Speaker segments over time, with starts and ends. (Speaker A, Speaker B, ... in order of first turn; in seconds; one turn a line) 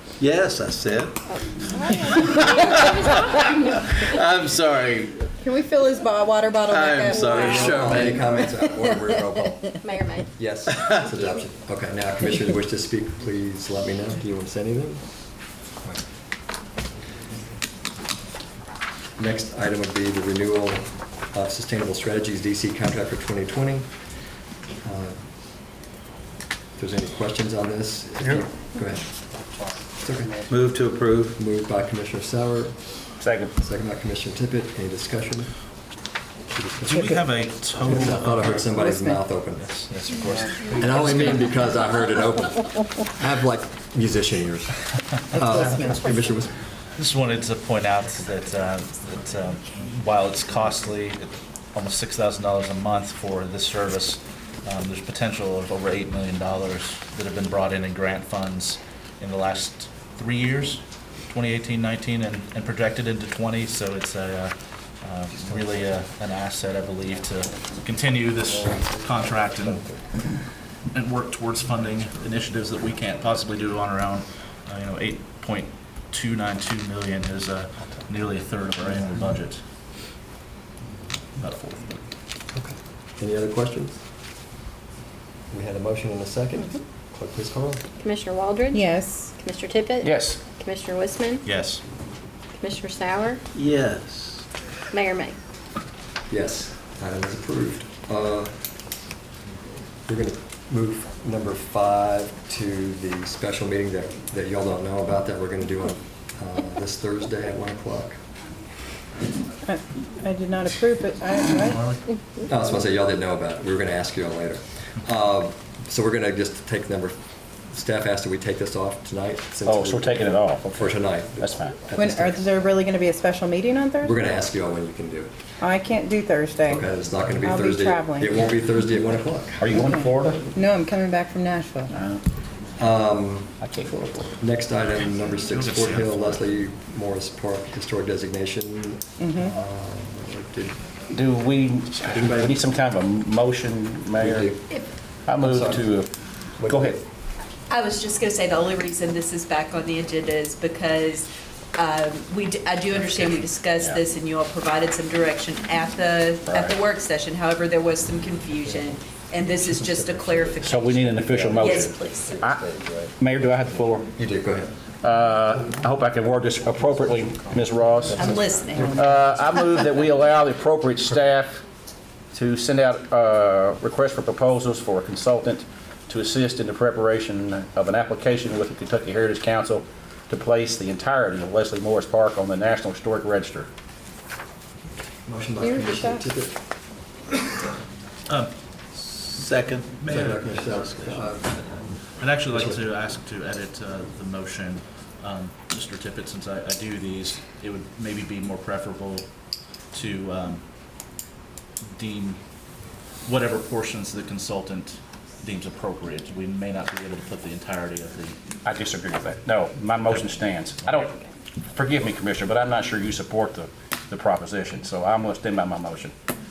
Speaker A: 0.2-5.3
Speaker B: 1.7-2.6
Speaker B: 5.4-8.4
Speaker A: 6.7-8.2
Speaker C: 7.3-9.7
Speaker D: 9.8-10.3
Speaker C: 10.4-15.0
Speaker C: 19.2-23.9
Speaker C: 24.8-25.2
Speaker C: 26.8-29.1
Speaker C: 30.0-30.5
Speaker A: 30.5-31.4
Speaker C: 31.3-32.8
Speaker E: 33.2-33.5
Speaker C: 33.6-35.5
Speaker C: 36.5-37.0
Speaker F: 36.8-38.6
Speaker C: 37.9-39.7
Speaker B: 38.6-39.2
Speaker F: 39.6-41.3
Speaker C: 40.8-44.7
Speaker B: 45.3-46.1
Speaker C: 45.3-46.5
Speaker F: 47.0-69.9
Speaker F: 70.9-79.6
Speaker F: 81.4-82.0
Speaker C: 82.5-84.0
Speaker C: 85.5-87.8
Speaker D: 88.0-91.5
Speaker B: 88.7-89.3
Speaker E: 90.0-90.4
Speaker F: 91.5-91.8
Speaker D: 92.6-93.4
Speaker A: 93.5-94.5
Speaker D: 94.9-95.4
Speaker C: 96.3-98.6
Speaker C: 100.1-108.2
Speaker B: 109.7-111.8
Speaker F: 111.7-112.0
Speaker C: 112.5-117.2
Speaker C: 117.7-122.4
Speaker E: 119.7-121.8
Speaker B: 122.0-124.1
Speaker C: 124.0-125.3
Speaker B: 125.6-128.3
Speaker C: 126.7-129.7
Speaker E: 129.6-130.5
Speaker B: 129.7-131.9
Speaker E: 131.9-132.2
Speaker C: 132.8-133.5
Speaker E: 133.6-134.4
Speaker C: 134.4-140.8
Speaker F: 135.0-136.4
Speaker B: 139.2-139.5
Speaker E: 141.1-144.5
Speaker C: 142.1-142.6
Speaker C: 144.2-144.6
Speaker E: 145.3-147.0
Speaker C: 145.4-145.9
Speaker C: 146.6-147.0
Speaker G: 147.7-161.0
Speaker E: 156.5-156.8
Speaker C: 158.7-159.0
Speaker C: 159.5-163.1
Speaker E: 160.6-162.6
Speaker G: 161.6-162.3
Speaker E: 163.2-164.1
Speaker C: 164.2-164.7
Speaker E: 165.0-171.6
Speaker G: 168.1-168.8
Speaker C: 168.2-169.0
Speaker E: 172.3-183.7
Speaker C: 185.3-186.6
Speaker B: 185.6-186.3
Speaker A: 189.0-190.0
Speaker F: 190.0-190.5
Speaker C: 190.1-191.8
Speaker A: 190.8-191.2
Speaker F: 192.2-199.3
Speaker C: 192.5-192.8
Speaker F: 199.9-200.7
Speaker F: 201.9-202.4
Speaker F: 203.2-208.4
Speaker E: 208.6-211.1
Speaker E: 211.7-216.1